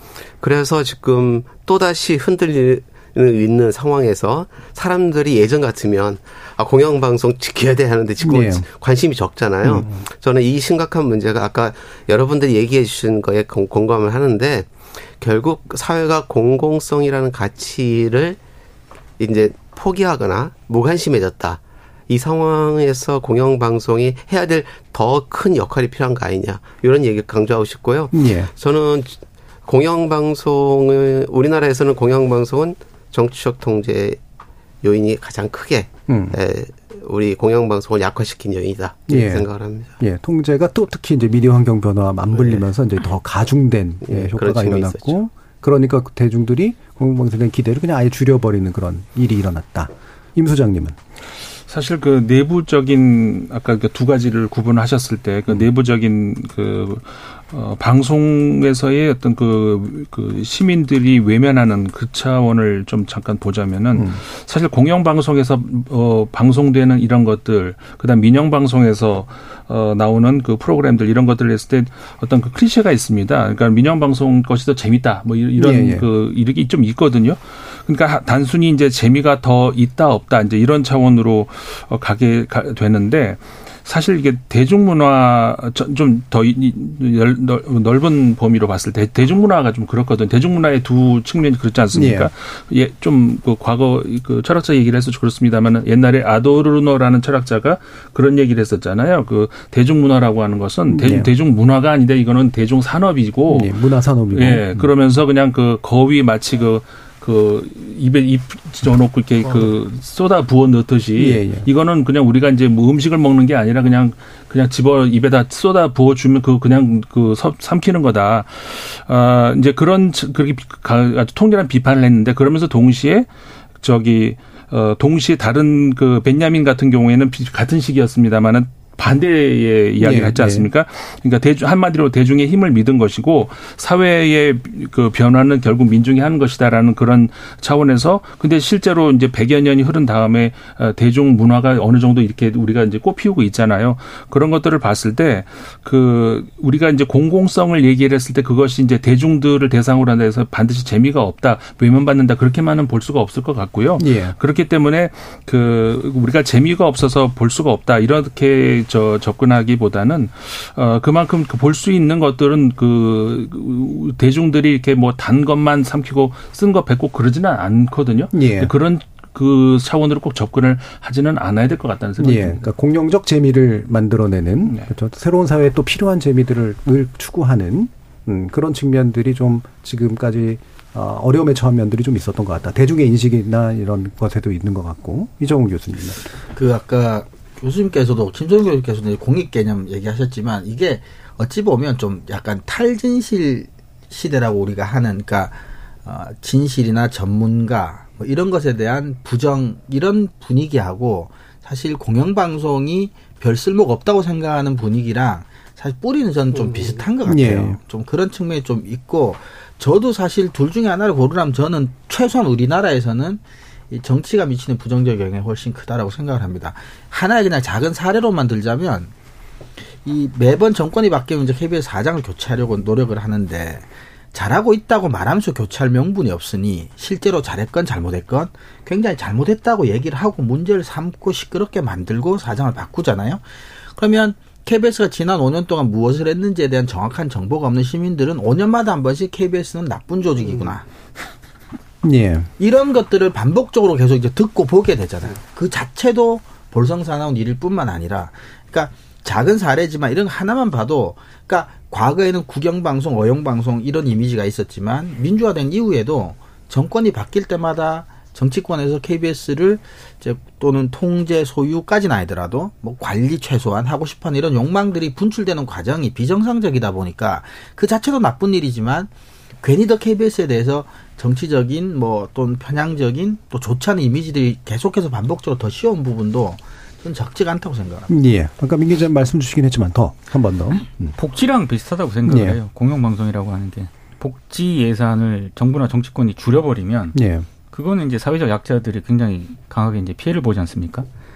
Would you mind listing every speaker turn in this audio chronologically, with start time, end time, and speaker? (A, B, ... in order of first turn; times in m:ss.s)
0:00.4-0:18.4 A
0:08.2-0:08.7 B
0:09.6-0:10.0 B
0:19.2-0:34.2 A
0:28.1-0:28.5 B
0:34.8-0:39.9 A
0:36.1-0:36.4 B
0:39.1-0:39.5 B
0:40.0-0:51.0 B
0:42.3-0:42.6 A
0:44.0-0:45.2 A
0:51.7-1:43.8 C
1:03.9-1:04.2 B
1:15.6-1:16.1 B
1:31.9-1:32.3 B
1:40.9-1:41.3 B
1:43.5-1:44.9 B
1:44.3-2:03.3 C
1:51.2-1:51.7 B
2:03.8-2:52.7 C
2:10.0-2:10.7 B
2:34.0-2:34.4 B
2:48.3-2:48.7 B
2:52.2-3:06.3 B
2:54.6-2:54.9 C
3:06.5-3:39.1 D
3:27.3-3:27.8 B
3:40.0-3:53.4 D
3:54.0-4:00.8 D
4:02.0-4:02.5 B
4:02.6-4:29.1 D
4:29.6-4:38.1 D
4:38.1-4:41.2 B
4:41.2-4:47.2 E
4:42.3-4:42.6 B
4:47.1-4:47.5 B
4:47.7-4:51.1 E